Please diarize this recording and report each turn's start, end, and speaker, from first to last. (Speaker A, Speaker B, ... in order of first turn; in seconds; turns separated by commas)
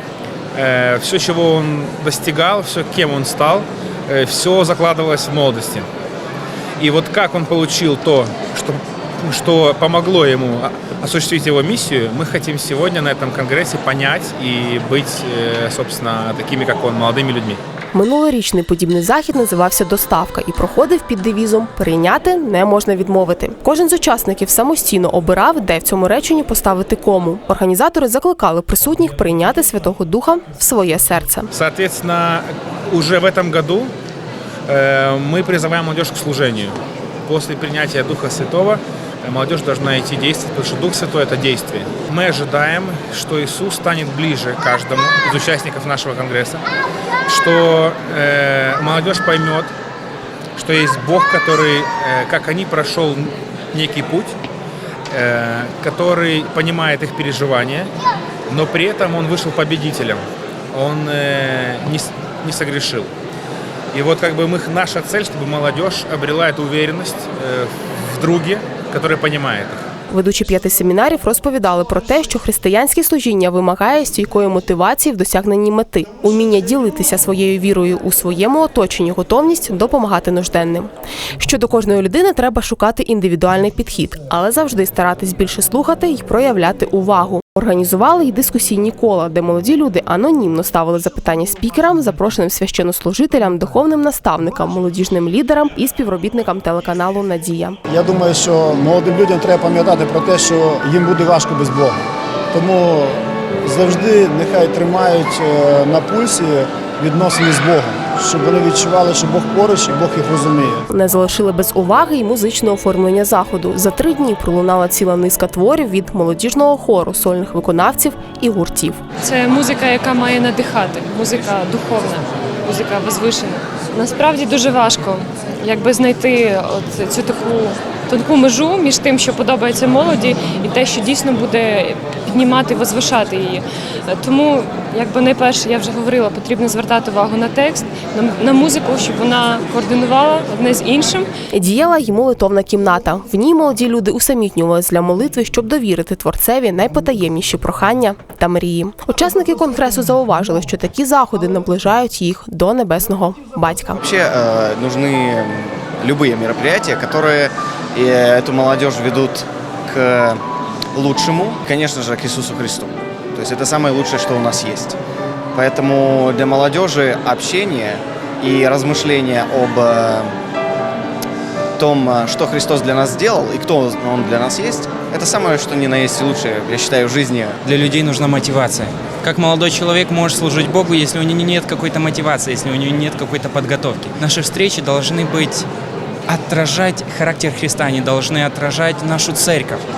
Speaker A: 0.5-5.9, Speaker A: 6.8-17.6, Speaker B: 17.9-31.5, Speaker A: 31.5-33.9, Speaker A: 34.7-36.8, Speaker A: 37.3-46.6, Speaker A: 47.2-49.7, Speaker A: 50.6-54.4, Speaker A: 55.1-57.9, Speaker A: 58.5-63.1, Speaker A: 63.9-69.9, Speaker B: 70.1-97.8, Speaker C: 97.9-110.8, Speaker B: 110.9-119.0, Speaker D: 119.2-141.3, Speaker B: 141.5-154.0, Speaker E: 154.0-160.4, Speaker E: 160.9-165.0, Speaker E: 165.5-170.3, Speaker E: 171.8-177.7, Speaker F: 177.7-185.6, Speaker F: 186.3-189.8